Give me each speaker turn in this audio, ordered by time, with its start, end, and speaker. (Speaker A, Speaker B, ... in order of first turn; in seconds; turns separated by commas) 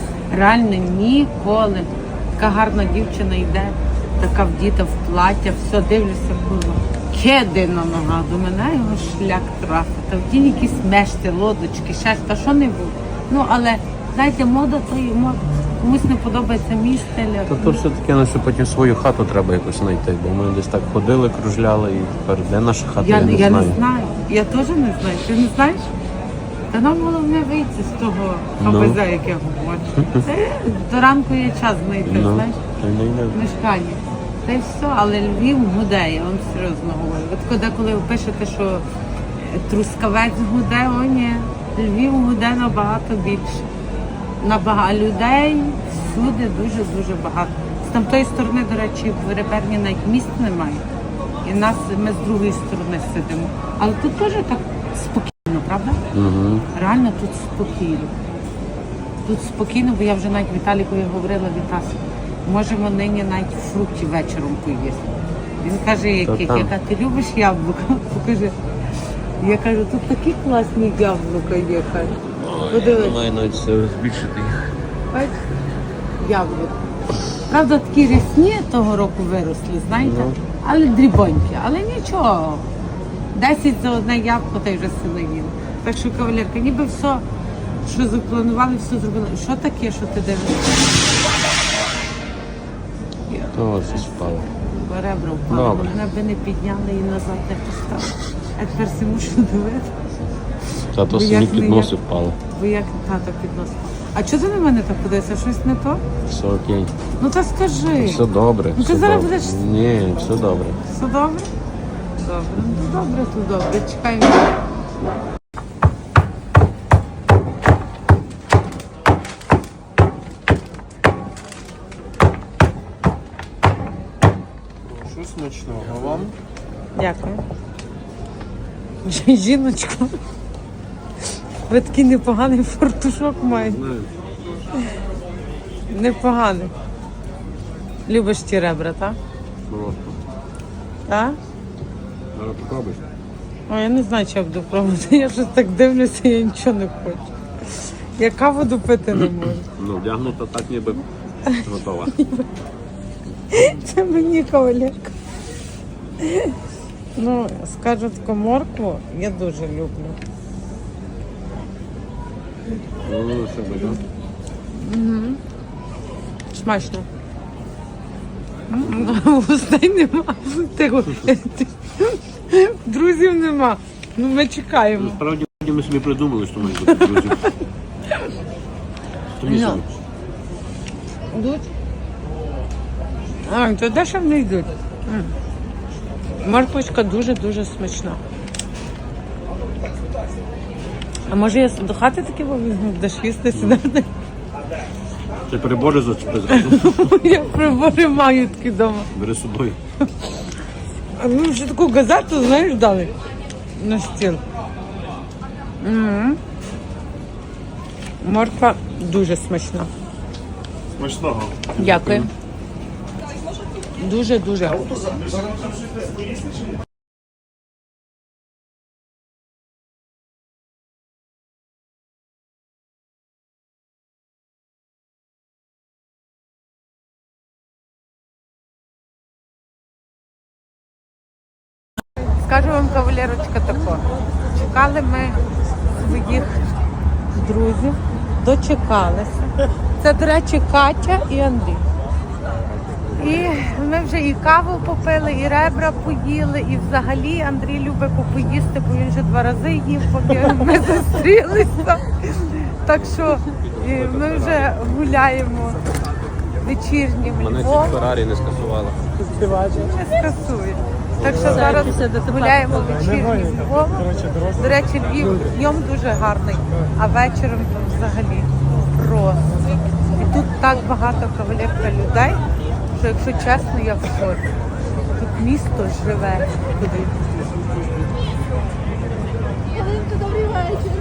Speaker A: 0.3-17.8, Speaker B: 17.5-23.8, Speaker A: 23.0-25.9, Speaker A: 26.7-32.6, Speaker B: 28.6-29.0, Speaker B: 32.1-33.4, Speaker A: 33.3-38.8, Speaker A: 39.4-43.7, Speaker A: 44.4-50.8, Speaker A: 51.4-56.0, Speaker B: 56.1-56.7, Speaker A: 56.7-58.1, Speaker A: 59.2-68.5, Speaker B: 66.2-66.7, Speaker A: 69.4-73.2, Speaker B: 72.3-74.7, Speaker A: 75.1-75.4, Speaker A: 76.2-76.8, Speaker A: 77.5-82.7, Speaker B: 80.0-80.4, Speaker A: 83.3-87.2, Speaker A: 87.8-90.9, Speaker A: 93.3-99.9, Speaker B: 93.5-94.5, Speaker B: 95.5-96.0, Speaker B: 100.9-102.4, Speaker A: 101.1-106.0, Speaker B: 106.2-106.9, Speaker A: 107.2-108.2, Speaker B: 108.0-110.8, Speaker A: 108.8-109.6, Speaker A: 110.8-111.5, Speaker A: 112.2-114.5, Speaker B: 125.0-126.3, Speaker A: 126.9-127.4, Speaker A: 129.0-130.2, Speaker A: 131.7-133.8, Speaker B: 133.5-134.1, Speaker A: 135.9-136.7, Speaker A: 138.1-139.2, Speaker B: 139.7-140.2, Speaker A: 141.1-141.4, Speaker B: 142.3-143.0, Speaker A: 143.7-149.7, Speaker B: 149.1-152.1, Speaker A: 151.4-152.5, Speaker A: 153.5-155.1, Speaker A: 156.2-156.6, Speaker A: 157.2-160.2, Speaker B: 163.1-164.0, Speaker A: 164.7-165.4, Speaker A: 166.5-167.1, Speaker A: 168.7-175.2, Speaker B: 168.8-169.2, Speaker B: 174.9-177.5, Speaker A: 176.8-177.6, Speaker B: 179.4-179.9, Speaker A: 179.4-179.8, Speaker A: 181.3-181.7, Speaker A: 183.4-185.3, Speaker A: 186.4-188.2, Speaker A: 191.3-194.1, Speaker B: 193.5-193.8, Speaker B: 195.5-197.2, Speaker A: 196.5-199.1, Speaker B: 199.1-199.8, Speaker A: 201.2-203.1, Speaker A: 203.8-204.4, Speaker A: 205.8-206.4, Speaker A: 208.2-209.9, Speaker C: 211.1-211.5, Speaker A: 211.7-212.3, Speaker A: 214.0-215.1, Speaker A: 232.4-236.6, Speaker A: 237.3-241.8, Speaker A: 243.2-255.8, Speaker B: 252.9-254.9, Speaker A: 256.6-258.0, Speaker B: 257.4-259.1, Speaker A: 259.6-269.5, Speaker B: 261.2-262.1, Speaker C: 261.5-262.4, Speaker A: 270.1-272.4, Speaker A: 272.9-274.4, Speaker A: 275.1-277.3, Speaker C: 280.2-280.8